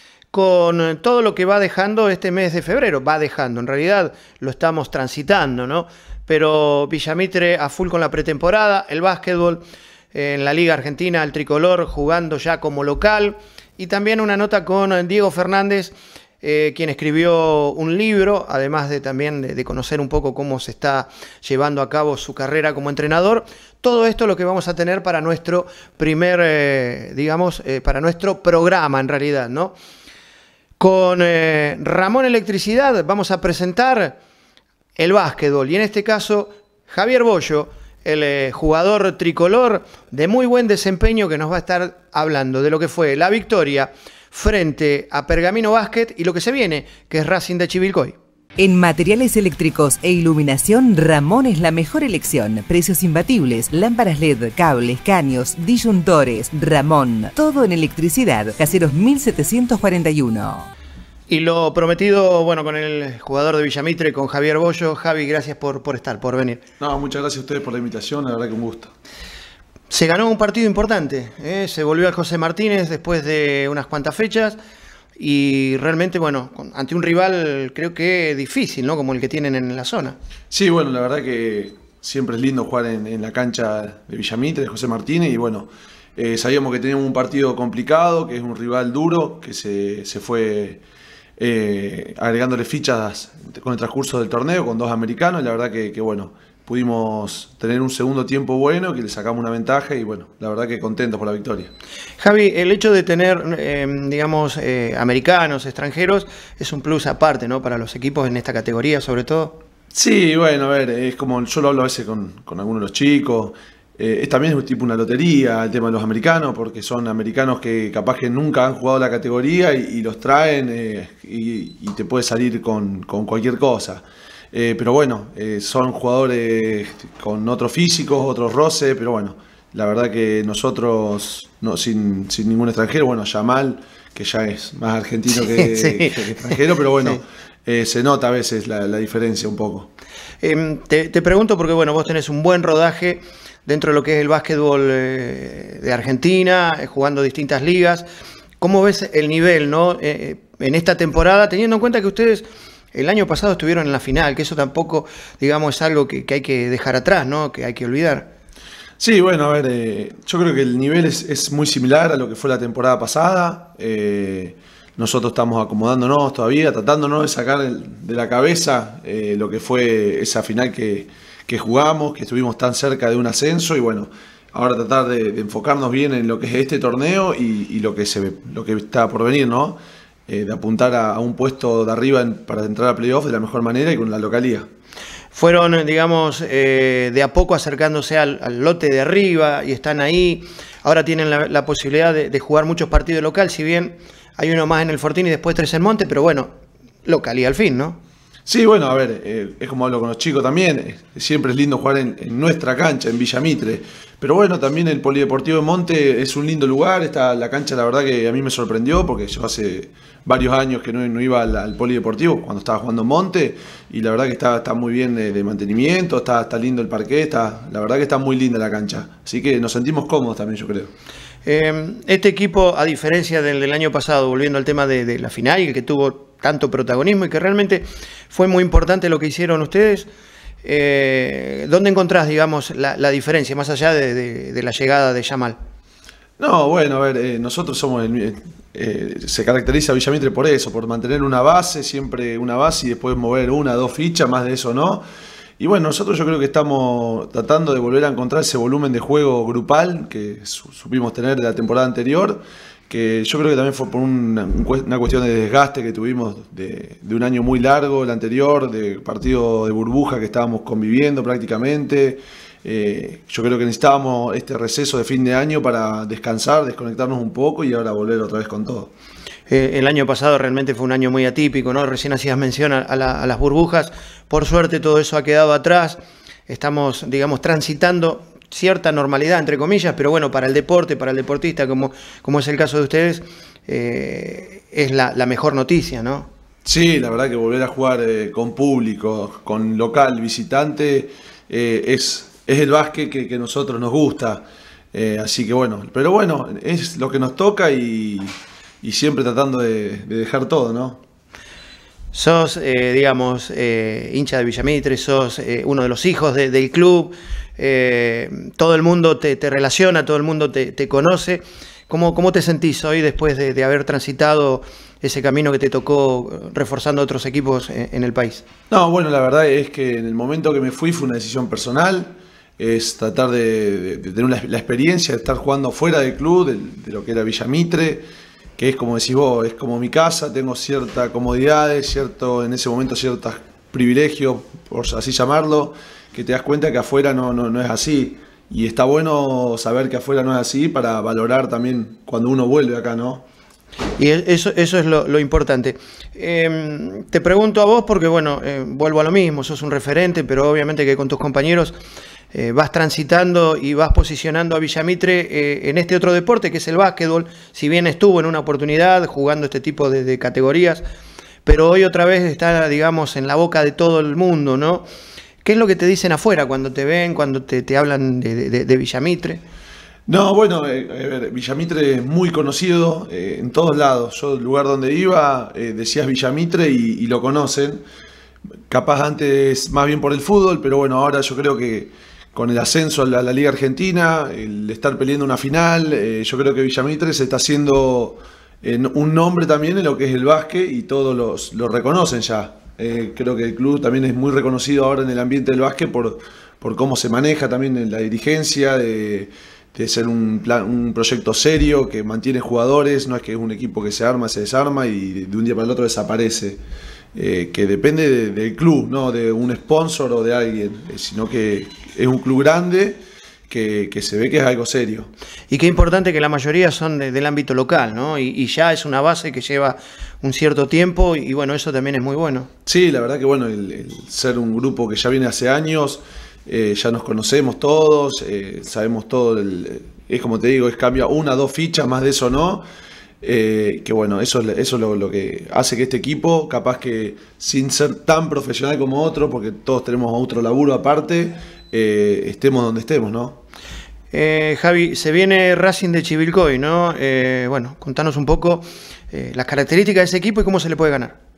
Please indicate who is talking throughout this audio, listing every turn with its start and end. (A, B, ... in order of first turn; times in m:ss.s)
0:00.3-0:29.8 A
0:30.8-0:34.2 A
0:35.0-0:48.2 A
0:48.6-1:00.7 B
1:01.3-1:06.6 A
1:06.8-1:08.9 C
1:09.9-1:14.6 A
1:15.2-1:20.2 A
1:20.5-1:30.8 C
1:31.4-1:41.7 C
1:42.2-1:49.6 A
1:49.9-2:19.9 C
2:15.4-2:17.2 A
2:20.4-2:28.1 A
2:28.6-2:38.3 A
2:39.0-3:04.7 C
3:05.3-3:16.5 A
3:17.0-3:18.0 A
3:18.5-3:40.9 C
3:41.4-3:50.1 A
3:50.6-3:55.6 A
3:56.4-4:05.0 C
4:05.6-4:28.9 C
4:29.5-4:46.3 A
4:46.6-5:01.0 C
5:02.1-5:18.4 A
5:18.7-5:28.1 C
5:28.6-5:43.2 C
5:44.0-5:51.8 A
5:52.3-6:00.8 A
6:01.4-6:04.8 A
6:05.4-6:09.4 A
6:10.1-6:17.8 C
6:18.7-6:46.6 C
6:47.2-6:55.1 C
6:55.5-7:02.5 A
7:02.7-7:12.7 C
7:13.2-7:23.4 C
7:24.1-7:31.2 A